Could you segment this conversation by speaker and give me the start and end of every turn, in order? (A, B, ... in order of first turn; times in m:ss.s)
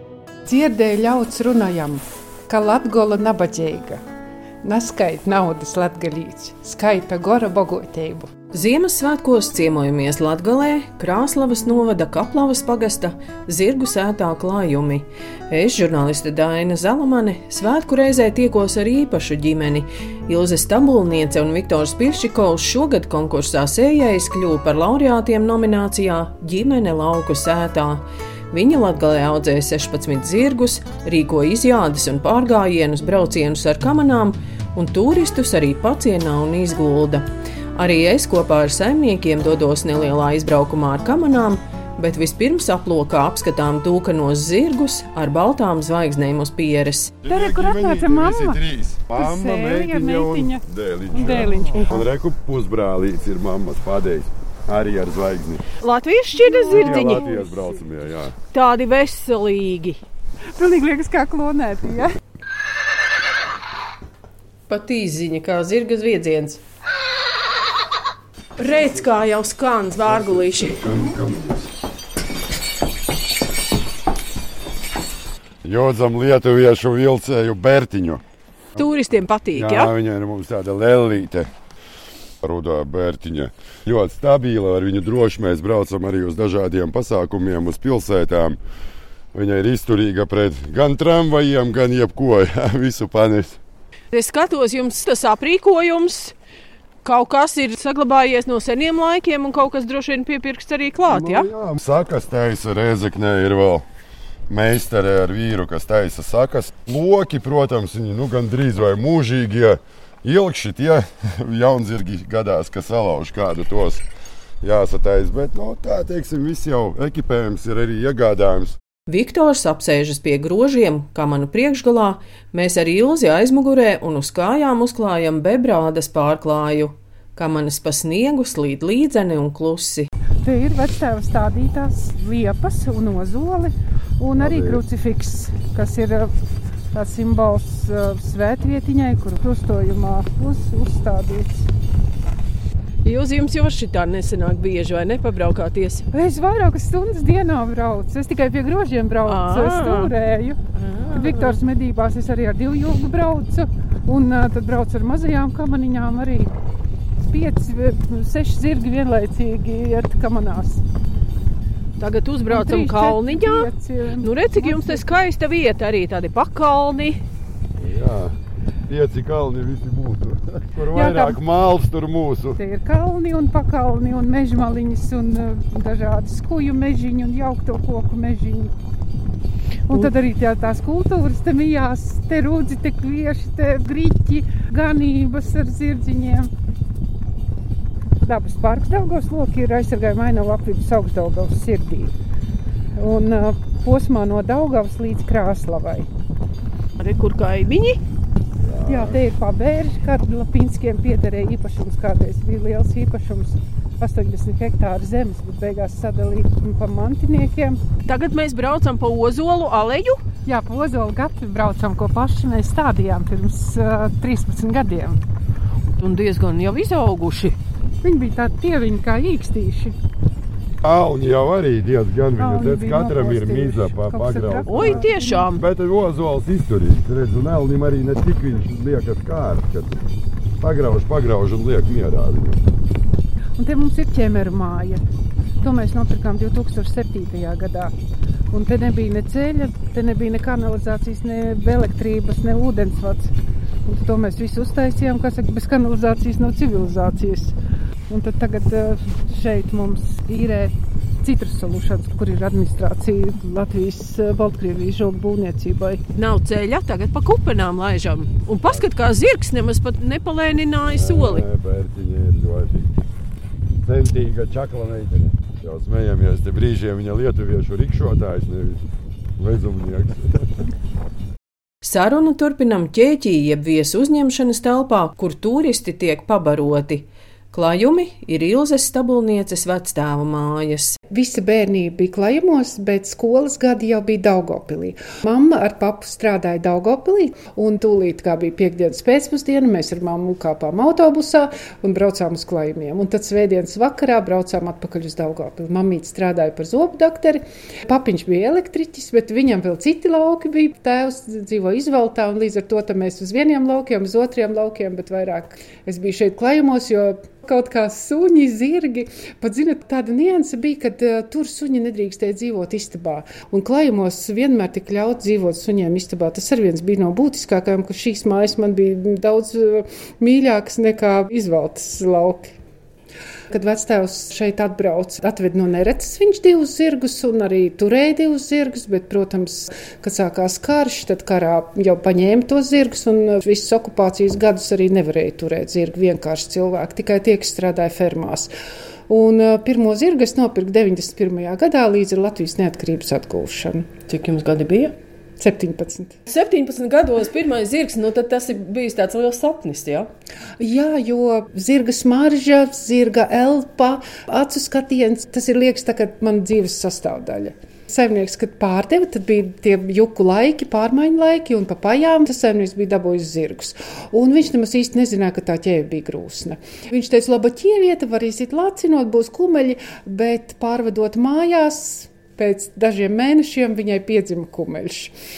0:00.5-0:04.0 A
0:04.6-0:08.3 A
0:08.5-0:47.2 B
0:47.2-0:55.7 C
0:47.3-0:52.0 A
0:55.8-0:57.4 B
0:56.4-0:57.5 A
0:56.7-0:58.4 C
0:58.5-1:00.0 B
1:00.6-1:02.2 A
1:04.7-1:06.6 B
1:08.6-1:10.8 B
1:10.0-1:11.7 C
1:15.6-1:18.2 C
1:18.8-1:19.9 B
1:19.6-1:21.5 C
1:22.4-1:28.6 C
1:29.3-1:33.6 C
1:34.1-1:36.4 B
1:37.0-1:41.5 B
1:41.1-1:43.9 C
1:44.5-1:54.0 C
1:54.6-1:58.8 C
1:59.1-2:10.1 B
2:10.4-2:16.3 A
2:14.4-2:14.8 C
2:16.9-2:21.7 A
2:23.0-2:26.1 B
2:26.1-2:30.6 A
2:29.2-2:30.1 B
2:30.8-2:31.6 B
2:31.1-2:36.5 A
2:37.3-2:40.8 A
2:42.0-2:43.7 B
2:42.5-2:45.0 A
2:44.2-2:47.2 B
2:47.8-2:52.6 C
2:50.9-2:51.4 A
2:52.6-2:58.7 A
2:59.9-3:06.5 A
3:08.2-3:12.1 A
3:13.0-3:16.1 A
3:17.0-3:18.0 B
3:18.6-3:19.2 C
3:18.9-3:27.8 A
3:28.0-3:30.2 B
3:30.5-3:35.2 A
3:36.0-3:37.6 B
3:38.0-3:40.0 A
3:40.8-3:50.0 C
3:42.4-3:45.4 A
3:44.7-3:45.6 B
3:50.6-3:52.6 C
3:53.6-3:55.0 A
3:55.6-3:57.9 A
3:58.5-4:03.3 A
4:03.8-4:07.6 A
4:08.1-4:16.0 A
4:16.1-4:21.4 B
4:20.8-4:22.9 C
4:23.8-4:28.8 C
4:29.4-4:30.5 C
4:31.8-4:41.0 B
4:41.1-5:22.5 A
5:23.5-5:38.5 A
5:39.1-5:43.9 A
5:44.1-5:45.0 B
5:45.4-5:46.2 A
5:46.3-5:50.1 B
5:50.6-6:15.1 A